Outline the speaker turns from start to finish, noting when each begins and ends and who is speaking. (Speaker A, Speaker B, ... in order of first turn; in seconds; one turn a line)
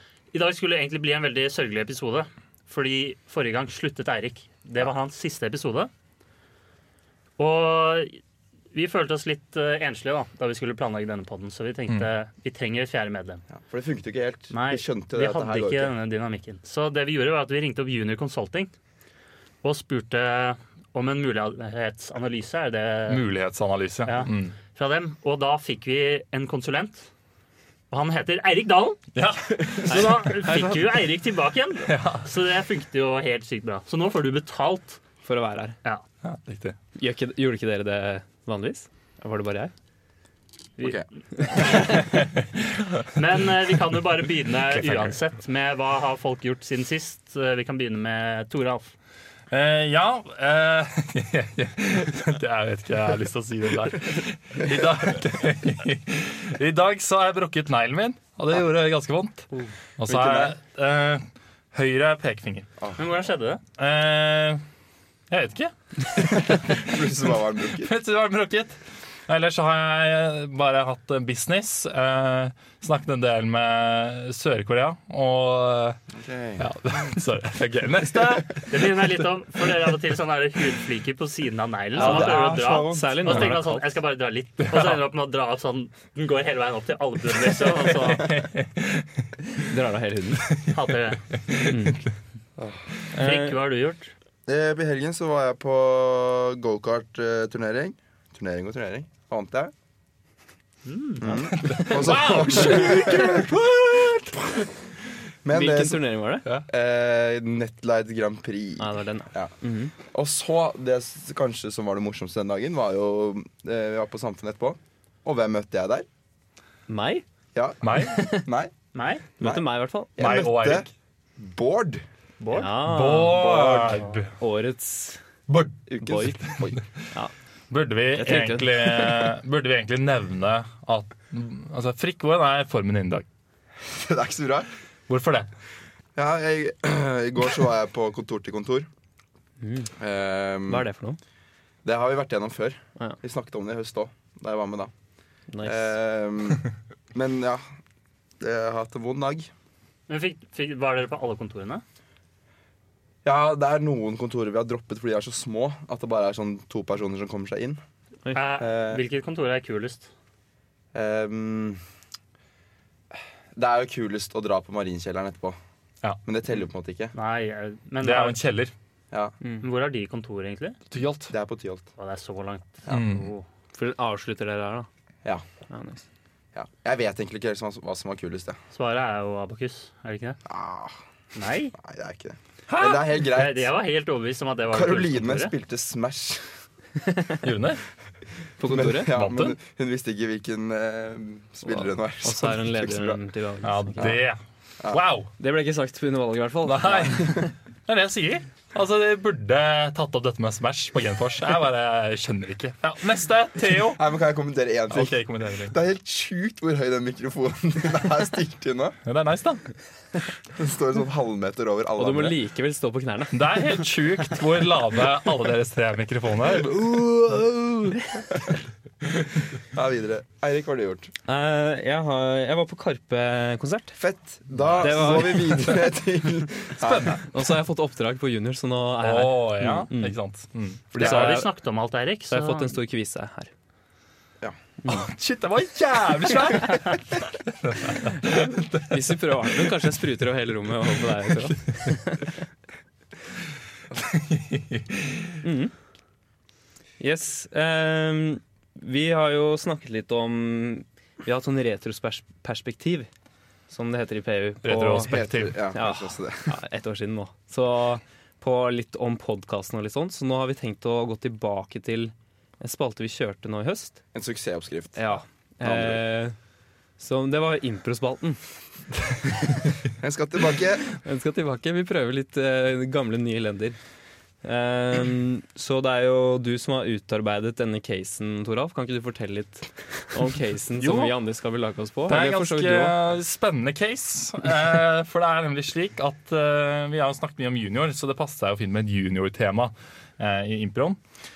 Speaker A: 0.3-5.9
Speaker A: 7.4-8.2
Speaker A: 8.7-13.4
Speaker B: 13.5-15.9
Speaker A: 14.5-18.7
Speaker A: 19.6-23.2
Speaker C: 23.1-24.6
Speaker A: 24.1-27.1
Speaker A: 27.9-29.0
Speaker C: 29.1-30.9
Speaker A: 29.8-35.0
Speaker C: 31.9-32.3
Speaker D: 35.2-35.8
Speaker C: 36.2-36.8
Speaker D: 37.0-39.7
Speaker A: 40.8-42.1
Speaker B: 40.8-41.0
Speaker C: 41.6-43.2
Speaker A: 43.1-48.9
Speaker C: 44.7-45.2
Speaker C: 49.5-62.7
Speaker B: 60.0-60.5
Speaker A: 63.0-63.6
Speaker C: 63.8-64.6
Speaker C: 65.3-67.1
Speaker B: 66.2-67.9
Speaker C: 67.7-76.0
Speaker B: 76.1-76.7
Speaker C: 76.6-78.8
Speaker A: 78.7-88.4
Speaker D: 81.9-83.9
Speaker B: 82.0-83.2
Speaker C: 83.3-83.5
Speaker C: 84.6-85.0
Speaker C: 87.6-89.6
Speaker D: 89.6-90.6
Speaker C: 90.5-92.1
Speaker A: 90.7-91.2
Speaker D: 91.7-92.0
Speaker B: 92.6-92.9
Speaker D: 93.1-93.6
Speaker A: 93.2-94.1
Speaker B: 94.5-99.7
Speaker A: 100.9-101.3
Speaker B: 101.2-103.5
Speaker C: 101.3-104.7
Speaker B: 105.4-106.0
Speaker D: 105.5-106.5
Speaker B: 106.7-109.5
Speaker D: 108.8-109.9
Speaker B: 110.1-116.1
Speaker D: 116.9-117.2
Speaker B: 117.5-118.7
Speaker C: 117.8-118.3
Speaker D: 117.9-118.5
Speaker A: 118.9-119.2
Speaker D: 119.4-120.2
Speaker B: 120.2-122.0
Speaker C: 120.2-120.9
Speaker A: 122.4-122.8
Speaker D: 122.5-125.2
Speaker C: 122.8-124.3
Speaker A: 123.6-124.2
Speaker B: 125.9-126.8
Speaker D: 126.0-126.4
Speaker C: 127.7-133.3
Speaker D: 128.2-129.3
Speaker B: 133.8-134.7
Speaker C: 135.1-135.5
Speaker B: 136.2-138.9
Speaker D: 139.6-139.9
Speaker B: 140.0-140.9
Speaker D: 140.7-141.2
Speaker B: 141.8-144.9
Speaker D: 145.5-145.9
Speaker B: 145.6-147.6
Speaker B: 148.4-149.5
Speaker A: 150.1-151.8
Speaker B: 153.2-157.8
Speaker A: 158.3-160.1
Speaker B: 158.6-159.0
Speaker B: 160.9-161.8
Speaker B: 163.1-165.6
Speaker B: 166.2-167.2
Speaker A: 167.2-168.4
Speaker C: 168.0-168.7
Speaker A: 169.6-170.8
Speaker C: 170.9-171.3
Speaker B: 171.3-171.9
Speaker A: 172.0-173.5
Speaker C: 172.9-173.3
Speaker D: 173.7-174.9
Speaker D: 175.7-176.0
Speaker B: 176.5-178.6
Speaker A: 178.7-180.4
Speaker B: 180.4-180.9
Speaker A: 181.3-181.7
Speaker B: 181.7-183.7
Speaker C: 182.7-183.1
Speaker A: 183.1-185.5
Speaker B: 184.7-186.5
Speaker D: 187.1-187.4
Speaker C: 187.4-187.8
Speaker D: 188.6-189.2
Speaker B: 188.6-193.2
Speaker C: 189.1-189.6
Speaker D: 191.7-194.1
Speaker C: 193.6-195.3
Speaker D: 195.4-197.4
Speaker C: 196.6-204.0
Speaker B: 203.9-209.0
Speaker C: 204.9-205.8
Speaker C: 209.1-209.6
Speaker B: 210.5-212.4
Speaker D: 212.0-213.6
Speaker C: 213.3-216.9
Speaker D: 216.7-218.4
Speaker B: 219.7-221.1
Speaker D: 221.3-224.0
Speaker B: 224.0-227.2
Speaker D: 224.8-225.9
Speaker C: 226.8-227.2
Speaker D: 227.2-230.2
Speaker C: 229.0-231.0
Speaker B: 230.9-231.4
Speaker D: 230.9-231.5
Speaker A: 230.9-232.7
Speaker D: 232.3-233.5
Speaker C: 234.9-239.7
Speaker D: 238.9-242.3
Speaker C: 243.9-245.4
Speaker D: 245.4-245.7
Speaker D: 247.0-253.1
Speaker D: 253.7-264.0
Speaker C: 254.6-255.6
Speaker B: 255.0-256.6
Speaker B: 264.1-265.0
Speaker D: 265.0-266.4
Speaker B: 265.6-266.0
Speaker D: 267.0-268.4
Speaker B: 269.9-270.9
Speaker D: 270.9-273.8
Speaker D: 274.4-282.9
Speaker C: 280.8-281.1
Speaker C: 282.1-291.0